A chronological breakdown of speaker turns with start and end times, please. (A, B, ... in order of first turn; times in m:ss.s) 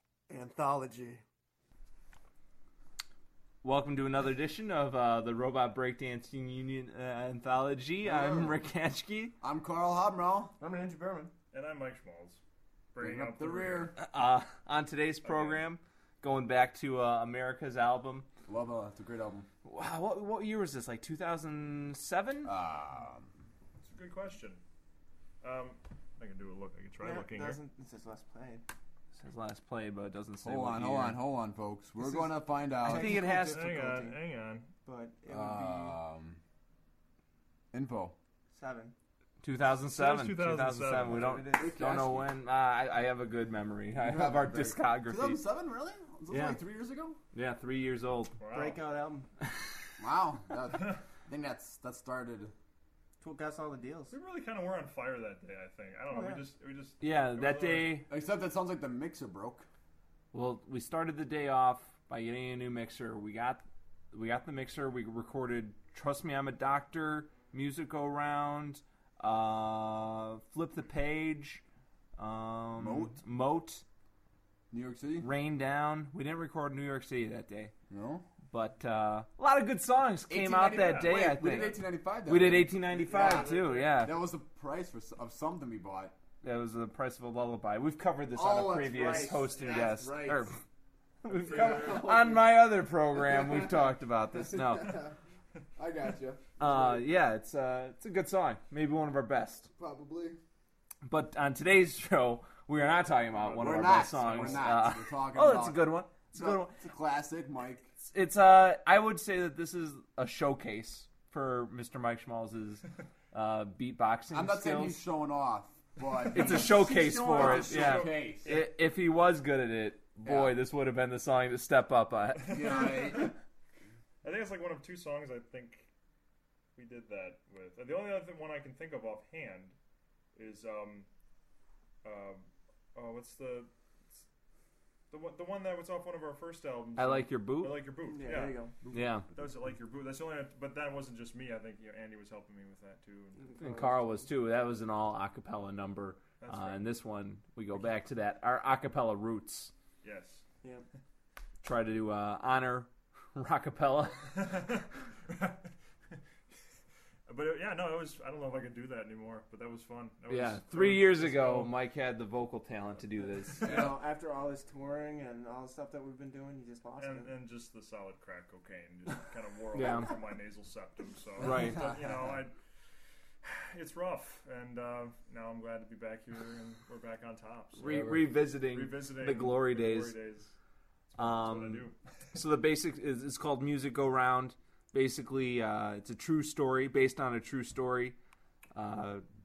0:00.3-0:01.2 A
0:03.6-0:09.3 B
0:08.0-0:08.6 C
0:09.4-0:10.5 C
0:10.6-0:11.3 A
0:11.5-0:12.4 D
0:12.9-0:13.8 D
0:13.0-0:14.0 C
0:14.0-0:18.3 B
0:15.2-0:15.7 D
0:18.4-0:19.5 C
0:19.6-0:22.5 B
0:22.4-0:23.3 C
0:23.8-0:24.6 D
0:25.4-0:27.6 D
0:27.0-0:28.6 A
0:29.1-0:31.2 B
0:30.4-0:33.2 C
0:32.0-0:34.2 A
0:32.8-0:33.7 B
0:33.6-0:34.7 D
0:34.8-0:36.0 A
0:35.3-0:36.4 C
0:37.7-0:38.1 C
0:38.5-0:38.9 A
0:39.4-0:45.4 B
0:39.8-0:41.1 D
0:41.0-0:41.8 A
0:41.2-0:42.3 C
0:43.9-0:47.2 C
0:46.3-0:46.6 B
0:47.3-0:48.4 B
0:48.4-0:48.8 D
0:48.5-0:49.3 A
0:50.0-0:52.5 C
0:53.2-0:54.1 A
0:54.1-0:57.9 D
0:56.1-0:56.5 A
0:57.0-0:58.1 B
0:58.1-0:59.6 C
1:00.3-1:11.6 B
1:12.2-1:13.8 B
1:12.8-1:13.2 C
1:14.7-1:15.3 C
1:15.2-1:17.7 B
1:17.9-1:18.2 C
1:18.5-1:24.2 B
1:20.3-1:26.2 C
1:20.9-1:21.8 D
1:23.1-1:23.5 A
1:23.1-1:23.9 D
1:26.4-1:30.6 B
1:28.3-1:30.0 A
1:28.7-1:30.5 C
1:31.2-1:35.0 B
1:31.3-1:32.1 D
1:31.5-1:32.4 C
1:33.3-1:33.8 C
1:34.5-1:35.1 C
1:35.8-1:37.1 C
1:36.6-1:39.7 B
1:39.8-1:40.4 C
1:41.0-1:46.8 B
1:43.3-1:44.6 D
1:43.5-1:47.9 C
1:48.0-1:55.0 B
1:54.3-1:58.6 C
1:56.3-2:02.9 B
2:00.2-2:00.6 C
2:02.4-2:03.3 C
2:03.0-2:03.3 D
2:04.2-2:05.9 D
2:06.8-2:09.7 D
2:10.3-2:11.1 D
2:12.0-2:14.2 D
2:15.1-2:18.6 D
2:17.0-2:17.9 B
2:18.0-2:18.8 A
2:18.9-2:19.3 B
2:19.3-2:23.4 D
2:23.4-2:24.3 A
2:23.6-2:29.7 B
2:26.4-2:26.8 D
2:30.0-2:30.4 D
2:31.6-2:34.5 B
2:34.4-2:35.7 D
2:37.3-2:41.7 D
2:40.3-2:43.9 B
2:43.5-2:47.4 A
2:43.7-2:43.9 C
2:47.0-2:52.5 D
2:49.7-2:50.2 B
2:51.4-2:51.9 B
2:51.4-2:52.2 C
2:53.4-2:57.9 D
2:57.8-3:00.2 B
2:57.8-2:58.3 C
2:58.7-3:00.5 D
3:01.1-3:01.9 D
3:01.2-3:08.2 B
3:08.7-3:09.2 B